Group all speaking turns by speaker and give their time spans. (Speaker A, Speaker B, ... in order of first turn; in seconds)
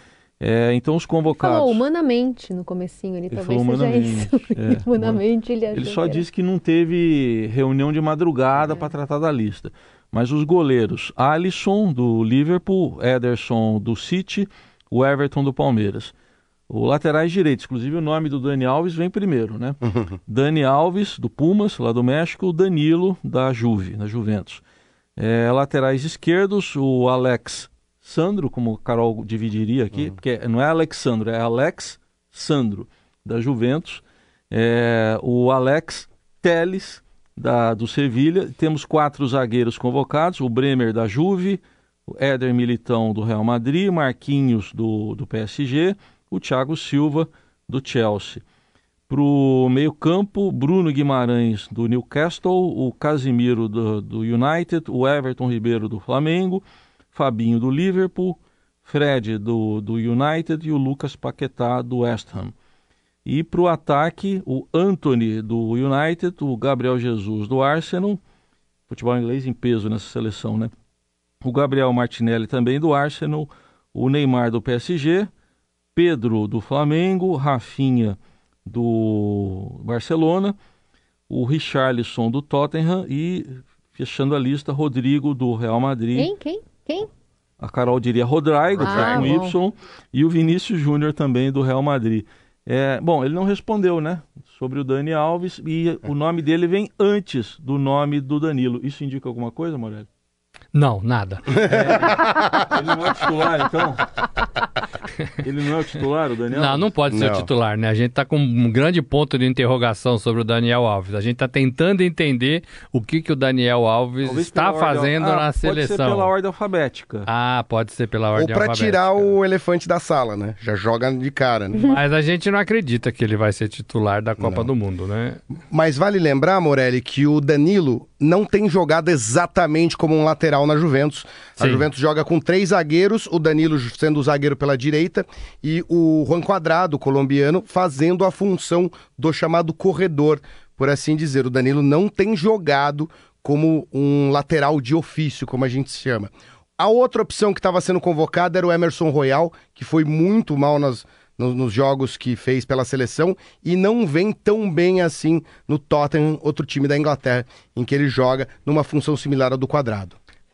Speaker A: 0.4-1.8, 3.3-16.1, 16.7-24.6, 25.2-48.4, 49.1-62.5, 63.2-68.2, 68.9-70.7, 71.4-75.3, 75.9-80.5, 81.3-86.3, 87.6-100.1, 101.7-104.1, 105.4-106.9, 114.2-117.3
Speaker B: 1.4-6.2, 86.1-87.1, 88.8-89.5
Speaker C: 19.9-20.1, 101.6-102.7, 107.1-107.5, 118.3-121.9, 124.4-124.7, 125.7-160.2
Speaker D: 100.7-101.6, 106.5-116.3, 117.2-119.3, 121.9-125.4, 131.6-131.8